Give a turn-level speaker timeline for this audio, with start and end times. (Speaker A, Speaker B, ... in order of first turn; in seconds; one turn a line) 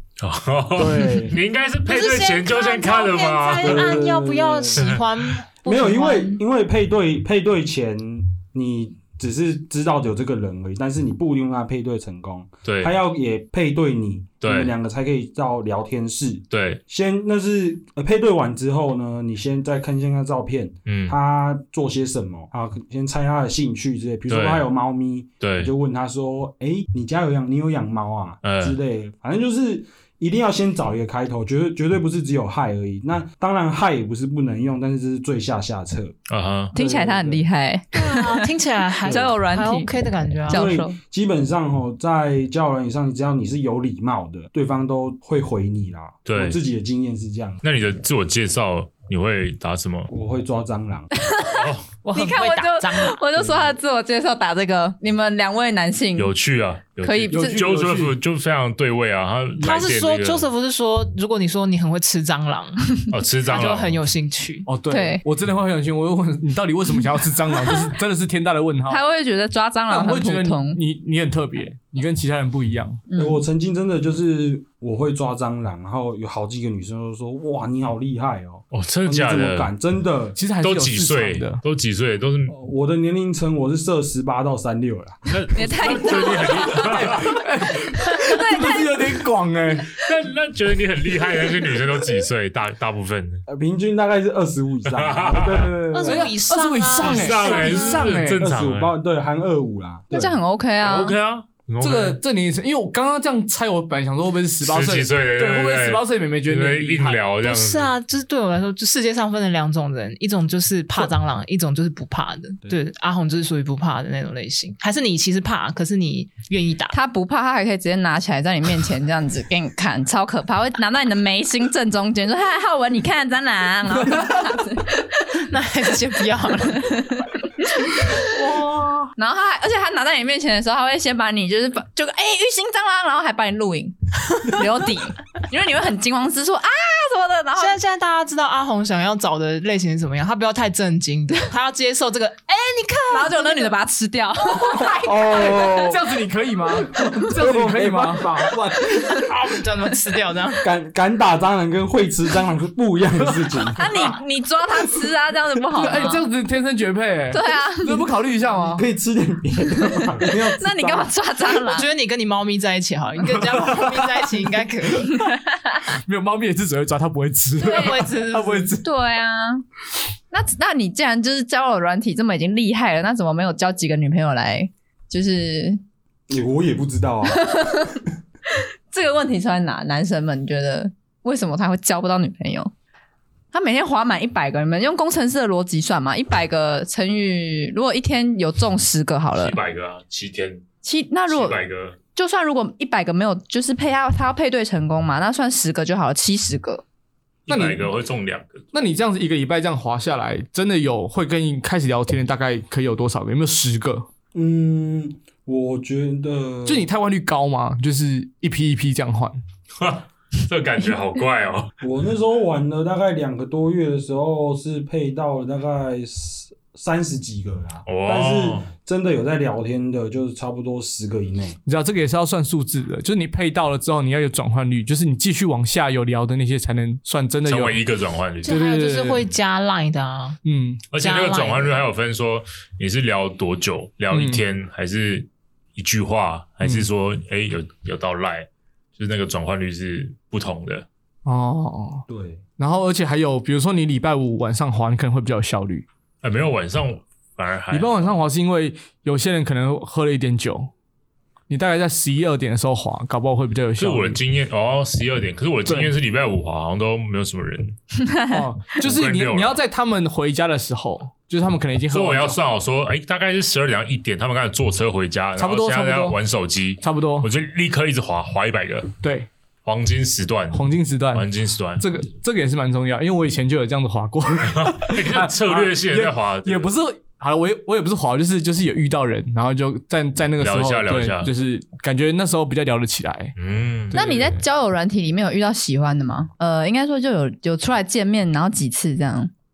Speaker A: 0.2-4.0
Speaker B: 0.7-1.4
Speaker C: 1.9-6.4
Speaker B: 3.6-4.9
Speaker A: 4.8-5.4
Speaker B: 5.6-36.1
Speaker A: 12.6-12.9
Speaker A: 14.4-14.7
Speaker A: 16.5-16.8
Speaker A: 20.9-21.1
Speaker A: 24.3-24.6
Speaker A: 25.4-25.7
Speaker A: 28.4-28.8
Speaker A: 36.3-36.7
Speaker B: 36.7-37.5
Speaker D: 36.7-38.5
Speaker C: 37.9-40.7
Speaker B: 39.0-39.4
Speaker D: 39.0-39.9
Speaker D: 40.5-40.9
Speaker B: 40.5-47.6
Speaker A: 46.3-46.6
Speaker A: 47.6-50.1
Speaker B: 50.1-51.1
Speaker D: 51.2-56.3
Speaker A: 51.5-51.9
Speaker C: 52.0-53.2
Speaker B: 53.4-53.7
Speaker A: 56.1-60.5
Speaker D: 57.0-57.7
Speaker E: 57.3-58.1
Speaker C: 59.6-62.9
Speaker A: 63.1-64.0
Speaker C: 63.5-64.7
Speaker E: 64.7-69.0
Speaker D: 64.9-65.2
Speaker D: 68.9-70.8
Speaker E: 69.9-73.0
Speaker D: 73.1-73.4
Speaker B: 73.2-80.4
Speaker A: 78.7-79.7
Speaker E: 80.4-81.6
Speaker A: 80.6-82.5
Speaker B: 82.5-85.2
Speaker A: 85.3-87.3
Speaker D: 85.5-87.3
Speaker E: 86.6-89.9
Speaker D: 87.9-89.2
Speaker A: 90.0-93.4
Speaker B: 93.5-96.3
Speaker A: 94.9-95.7
Speaker C: 95.9-98.1
Speaker E: 96.1-98.4
Speaker A: 97.0-98.9
Speaker B: 98.3-100.4
Speaker D: 100.1-101.1
Speaker A: 100.8-102.2
Speaker E: 101.8-107.2
Speaker A: 104.6-107.9
Speaker C: 107.4-117.0
Speaker D: 116.9-125.4
Speaker C: 125.4-126.9
Speaker D: 126.7-128.4
Speaker E: 128.4-129.1
Speaker C: 128.6-129.0
Speaker D: 129.2-137.8
Speaker C: 137.5-143.7
Speaker D: 143.1-145.9
Speaker B: 144.8-146.0
Speaker E: 145.6-148.8
Speaker B: 147.0-149.1
Speaker C: 149.0-150.7
Speaker B: 150.6-154.1
Speaker D: 153.8-156.2
Speaker E: 155.7-158.8
Speaker D: 157.3-158.0
Speaker B: 158.7-161.1
Speaker D: 159.8-161.9
Speaker C: 161.5-165.1
Speaker E: 163.5-164.1
Speaker D: 165.2-165.8
Speaker E: 165.9-168.8
Speaker D: 167.6-168.0
Speaker C: 167.6-168.7
Speaker D: 168.8-169.6
Speaker D: 170.3-175.8
Speaker B: 176.3-177.5
Speaker D: 177.3-178.0
Speaker D: 178.9-182.7
Speaker D: 183.5-189.6
Speaker A: 189.3-190.6
Speaker D: 190.8-191.6
Speaker A: 191.3-191.9
Speaker D: 192.1-196.8
Speaker A: 197.5-198.6
Speaker E: 197.5-197.9
Speaker E: 198.7-204.1
Speaker B: 204.3-206.8
Speaker E: 206.7-209.4
Speaker A: 209.8-211.7
Speaker B: 211.8-221.6
Speaker A: 217.9-218.7
Speaker E: 221.7-227.8
Speaker A: 227.4-228.5
Speaker C: 228.4-230.4
Speaker E: 228.4-229.2
Speaker E: 230.4-230.8
Speaker A: 230.9-240.8
Speaker C: 230.9-231.8
Speaker E: 234.1-234.4
Speaker E: 236.6-236.9
Speaker E: 241.2-242.0
Speaker B: 242.1-242.4
Speaker E: 242.6-245.8
Speaker A: 246.2-248.1
Speaker E: 247.7-250.7
Speaker E: 251.5-254.2
Speaker A: 253.8-257.8
Speaker E: 255.7-255.9
Speaker D: 258.0-258.4
Speaker E: 258.3-262.4
Speaker A: 258.8-259.6
Speaker A: 261.9-268.9
Speaker E: 265.4-266.2
Speaker E: 266.8-267.3
Speaker E: 269.0-269.3
Speaker A: 269.6-271.8
Speaker E: 270.5-271.3
Speaker E: 271.8-283.3
Speaker A: 274.5-276.7
Speaker A: 280.4-281.3
Speaker A: 283.4-284.0
Speaker E: 283.9-284.4
Speaker D: 283.9-289.3